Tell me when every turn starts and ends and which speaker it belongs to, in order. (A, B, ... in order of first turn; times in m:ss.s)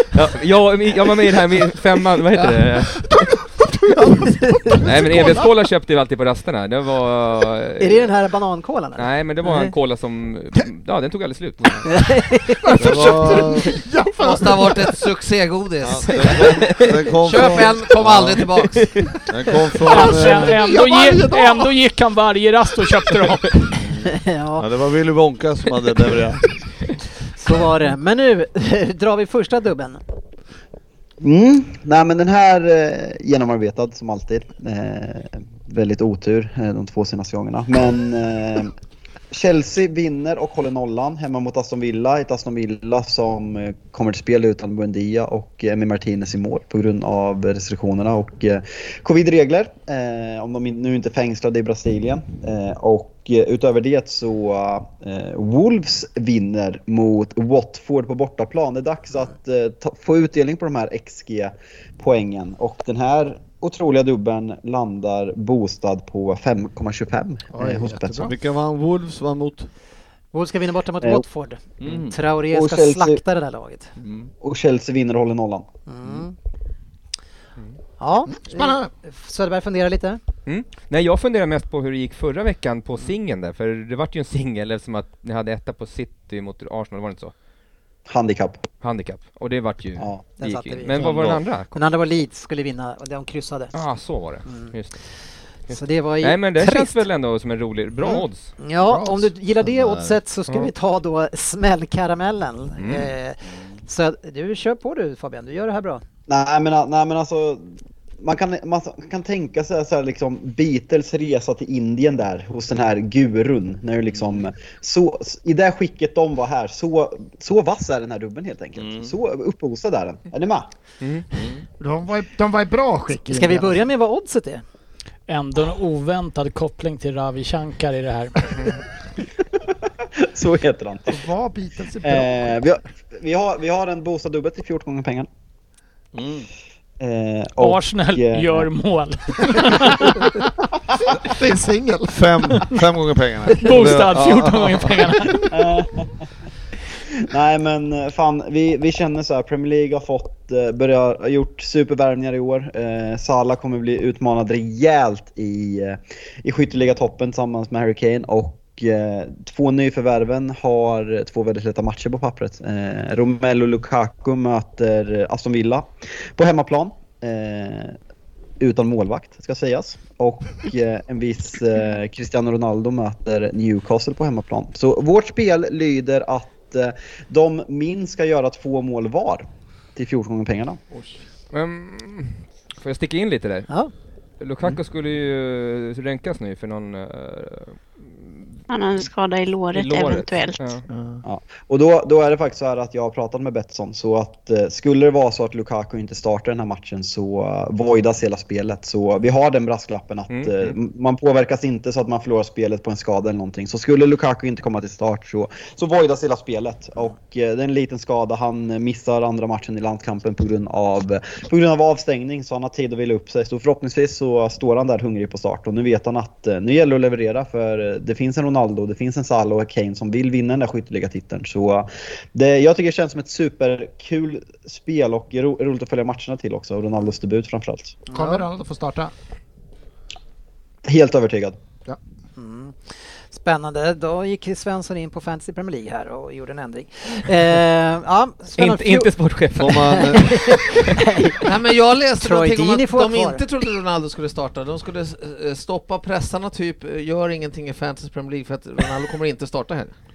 0:00.1-0:03.4 A
0:02.3-0:02.6 B
0:03.6-0:05.4 C
0:04.4-0:04.8 D
0:04.8-0:08.1 A
0:07.8-0:09.7 D
0:09.0-0:11.9 A
0:11.8-0:12.9 D
0:12.6-0:15.0 C
0:12.8-0:13.7 E
0:14.2-0:19.0 B
0:15.8-0:18.5 E
0:18.8-0:19.2 A
0:19.3-0:20.6 E
0:19.8-0:23.6 F
0:20.1-0:21.7 C
0:23.8-0:26.5 E
0:24.1-0:24.6 D
0:27.3-0:30.0 D
0:31.2-0:38.7 G
0:39.3-1:08.3 G
1:07.5-1:08.3 C
1:08.2-1:09.7 E
1:10.3-1:13.9 D
1:11.8-1:12.2 E
1:12.5-1:13.2 G
1:14.0-1:14.3 E
1:14.4-1:15.7 G
1:15.9-1:16.3 D
1:18.0-1:20.2 D
1:18.5-1:18.8 C
1:20.4-1:27.3 A
1:28.1-1:28.6 G
1:28.8-1:31.7 A
1:30.4-1:31.1 D
1:31.0-1:31.4 E
1:31.7-1:33.7 D
1:33.7-1:35.0 A
1:35.7-1:38.5 A
1:35.7-1:37.0 D
1:38.0-1:46.0 D
1:38.9-1:40.2 E
1:42.8-1:43.1 A
1:46.3-2:00.7 G
1:58.8-1:59.1 E
2:01.0-2:01.2 A
2:01.3-2:01.6 E
2:01.8-2:03.8 C
2:03.3-2:04.6 D
2:05.3-2:08.5 F
2:10.2-2:11.2 G
2:11.1-2:12.6 C
2:12.0-2:15.3 G
2:16.1-2:16.5 E
2:17.0-2:18.7 G
2:17.6-2:20.2 F
2:21.2-2:22.7 C
2:22.1-2:25.1 E
2:23.5-2:25.5 F
2:25.5-2:26.1 G
2:27.2-2:48.0 G
2:48.6-3:00.8 G
3:01.5-3:03.7 A
3:04.4-3:08.6 A
3:08.7-3:10.7 H
3:09.7-3:10.8 A
3:10.9-3:11.2 C
3:11.2-3:48.0 G
3:20.3-3:20.8 A
3:48.1-3:48.4 D
3:48.1-3:49.1 C
3:50.8-3:51.6 G
3:52.4-3:52.8 D
3:53.3-3:59.1 D
3:58.6-4:00.0 A
3:59.5-4:00.4 E
3:59.7-4:01.5 D
4:01.4-4:09.9 B
4:02.2-4:03.4 D